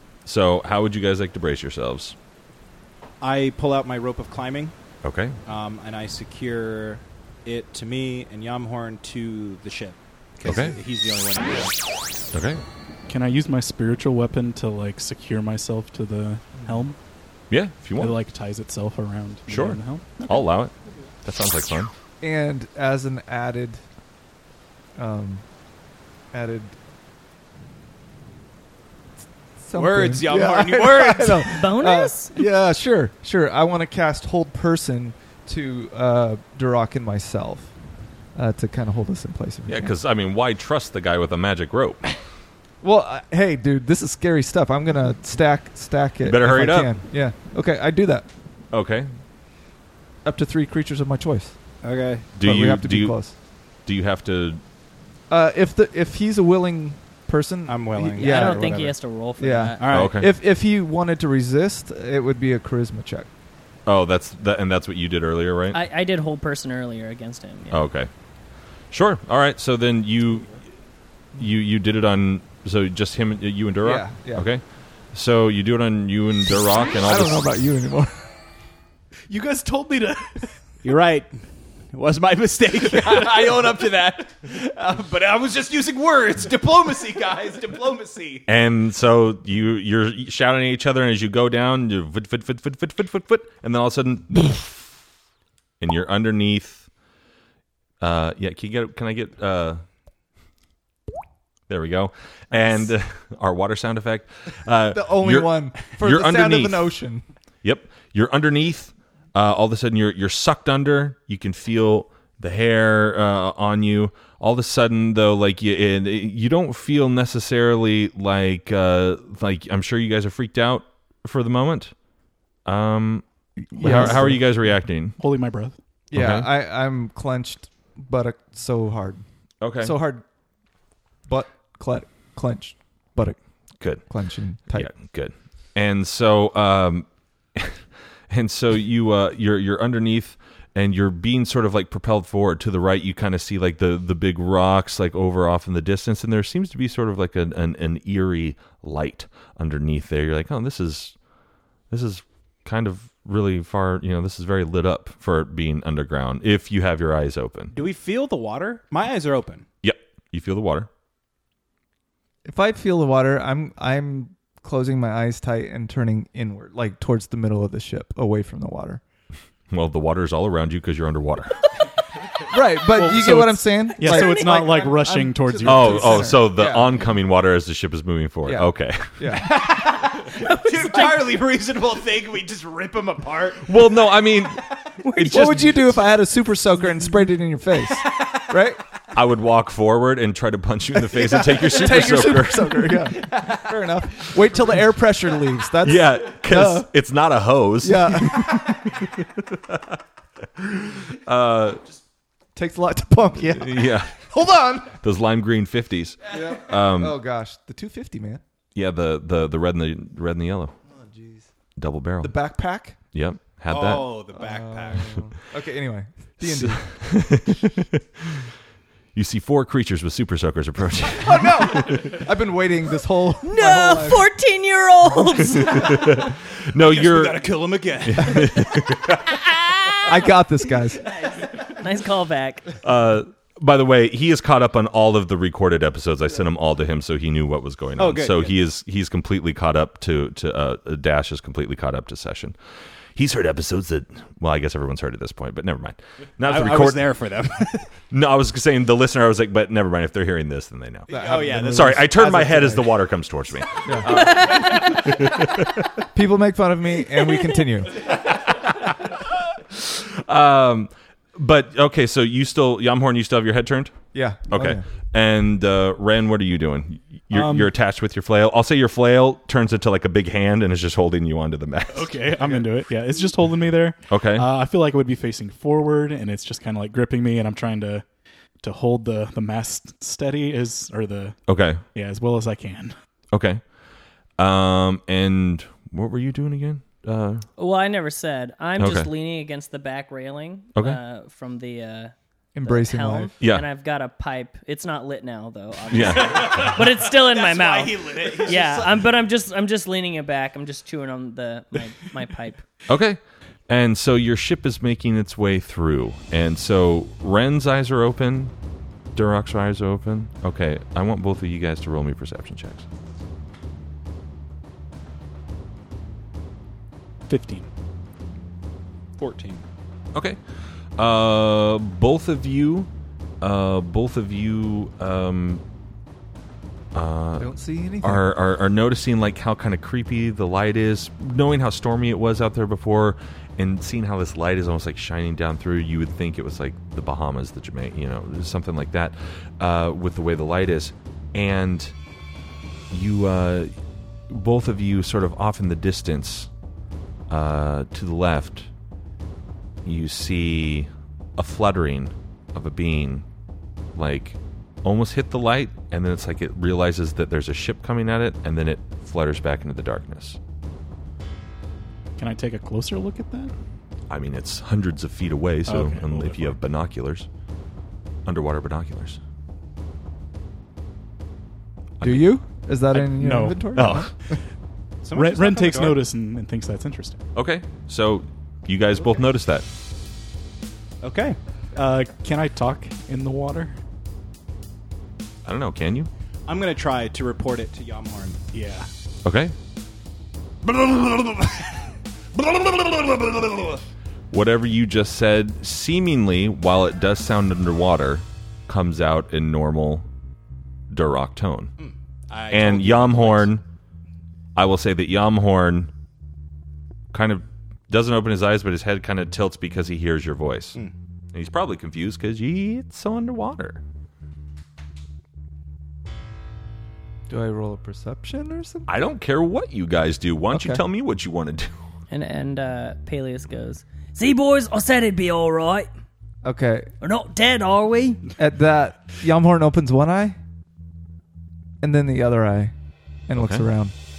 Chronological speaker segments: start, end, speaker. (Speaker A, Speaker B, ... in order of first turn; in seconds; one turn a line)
Speaker A: 0.2-2.1
Speaker B: 3.2-4.7
Speaker A: 5.0-5.4
Speaker B: 5.4-11.8
Speaker A: 10.4-10.8
Speaker A: 12.3-12.6
Speaker C: 13.1-17.0
Speaker D: 16.6-16.8
Speaker A: 17.5-18.2
Speaker C: 17.9-20.4
Speaker A: 19.5-21.9
Speaker D: 22.2-23.8
Speaker D: 24.9-25.4
Speaker D: 26.3-26.8
Speaker D: 29.6-37.7
Speaker B: 29.7-31.6
Speaker E: 31.5-32.3
Speaker D: 38.3-39.9
Speaker A: 39.7-42.1
Speaker D: 42.8-48.3
Speaker A: 46.2-47.0
Speaker A: 48.7-49.1
Speaker D: 50.2-51.5
Speaker B: 51.8-52.3
Speaker A: 52.4-53.2
Speaker D: 52.4-53.3
Speaker A: 53.8-54.6
Speaker D: 55.3-63.3
Speaker B: 57.7-58.9
Speaker E: 58.2-59.9
Speaker B: 59.8-60.2
Speaker A: 59.9-60.3
Speaker A: 63.9-65.8
Speaker E: 65.7-67.8
Speaker A: 67.7-68.1
Speaker A: 68.9-70.6
Speaker A: 71.3-77.5
Speaker D: 73.8-74.5
Speaker D: 77.0-78.2
Speaker C: 79.3-80.7
Speaker B: 80.8-88.5
Speaker A: 88.5-94.9
Speaker A: 95.8-96.9
Speaker A: 98.0-99.8
Speaker A: 101.7-106.9
Speaker D: 104.9-107.2
Speaker A: 107.6-121.9
Speaker A: 122.6-125.2
Speaker D: 123.7-124.4
Speaker C: 123.8-125.7
Speaker D: 126.1-129.2
Speaker A: 126.1-126.5
Speaker A: 129.6-129.9
Speaker D: 129.8-130.2
Speaker D: 131.3-133.4
Speaker A: 133.8-134.1
Speaker D: 133.9-134.9
Speaker A: 134.7-151.1
Speaker A: 151.9-157.7
Speaker B: 157.7-159.7
Speaker A: 159.8-160.9
Speaker D: 162.4-169.0
Speaker A: 169.7-171.6
Speaker D: 172.5-177.0
Speaker C: 172.9-176.4
Speaker E: 174.0-174.7
Speaker A: 175.6-179.3
Speaker D: 178.4-179.6
Speaker B: 179.3-183.8
Speaker E: 180.2-181.3
Speaker A: 183.6-184.6
Speaker E: 185.0-185.8
Speaker A: 185.1-185.8
Speaker D: 185.2-188.8
Speaker A: 189.1-193.0
Speaker D: 191.1-196.9
Speaker B: 193.3-193.7
Speaker A: 195.8-200.0
Speaker D: 197.8-199.0
Speaker A: 200.6-201.8
Speaker D: 202.5-204.9
Speaker A: 203.5-204.2
Speaker A: 204.9-207.2
Speaker D: 206.3-208.4
Speaker A: 208.7-210.7
Speaker D: 210.9-211.5
Speaker A: 211.8-212.3
Speaker D: 212.2-213.0
Speaker A: 213.1-214.2
Speaker B: 213.7-215.2
Speaker D: 214.3-217.3
Speaker A: 216.4-218.5
Speaker A: 219.1-222.2
Speaker D: 221.1-224.2
Speaker E: 223.4-226.1
Speaker A: 225.6-227.4
Speaker B: 226.8-228.6
Speaker A: 228.0-229.4
Speaker E: 229.3-230.2
Speaker D: 230.0-231.0
Speaker E: 231.1-232.8
Speaker A: 232.8-242.6
Speaker B: 238.0-238.6
Speaker A: 243.1-247.1
Speaker B: 246.4-247.9
Speaker A: 248.1-255.9
Speaker B: 251.1-252.4
Speaker D: 251.1-252.9
Speaker D: 253.8-254.3
Speaker E: 254.1-255.0
Speaker D: 256.1-258.0
Speaker A: 258.0-263.9
Speaker D: 264.1-264.8
Speaker A: 264.5-272.4
Speaker C: 267.3-267.7
Speaker C: 271.9-278.0
Speaker A: 274.1-274.5
Speaker C: 278.6-282.9
Speaker A: 281.5-281.8
Speaker A: 283.3-283.6
Speaker A: 284.4-287.4
Speaker E: 287.6-292.1
Speaker A: 288.8-289.1
Speaker D: 292.5-293.3
Speaker E: 292.6-302.6
Speaker A: 293.4-293.6
Speaker A: 295.9-296.8
Speaker B: 296.0-299.0
Speaker A: 302.9-308.5
Speaker A: 309.1-312.9
Speaker C: 317.3-317.7
Speaker B: 319.2-319.6
Speaker A: 320.1-320.4
Speaker A: 321.0-322.9
Speaker A: 323.4-325.6
Speaker A: 326.9-341.9
Speaker D: 327.4-328.3
Speaker A: 342.9-343.7
Speaker A: 344.3-346.5
Speaker A: 347.3-348.7
Speaker A: 349.8-353.2
Speaker A: 353.9-360.4
Speaker C: 362.2-363.5
Speaker A: 364.1-367.3
Speaker C: 365.6-366.6
Speaker A: 368.2-369.2
Speaker A: 372.0-372.3
Speaker D: 372.0-374.1
Speaker C: 372.9-374.1
Speaker A: 373.7-374.1
Speaker B: 375.0-376.0
Speaker C: 375.1-377.2
Speaker A: 377.3-379.6
Speaker B: 381.0-381.4
Speaker C: 381.7-383.8
Speaker A: 385.4-386.1
Speaker B: 386.4-388.4
Speaker C: 388.5-388.9
Speaker A: 389.2-389.5
Speaker B: 390.6-393.8
Speaker A: 394.3-400.1
Speaker A: 400.9-401.7
Speaker B: 401.8-403.5
Speaker A: 402.5-403.6
Speaker A: 404.5-405.9
Speaker A: 407.1-410.8
Speaker A: 411.3-413.8
Speaker D: 417.3-418.9
Speaker A: 418.9-421.9
Speaker D: 420.5-420.8
Speaker E: 422.1-425.9
Speaker D: 426.4-426.9
Speaker E: 427.0-428.3
Speaker D: 428.4-430.4
Speaker D: 431.8-432.7
Speaker D: 433.3-433.9
Speaker A: 433.3-433.7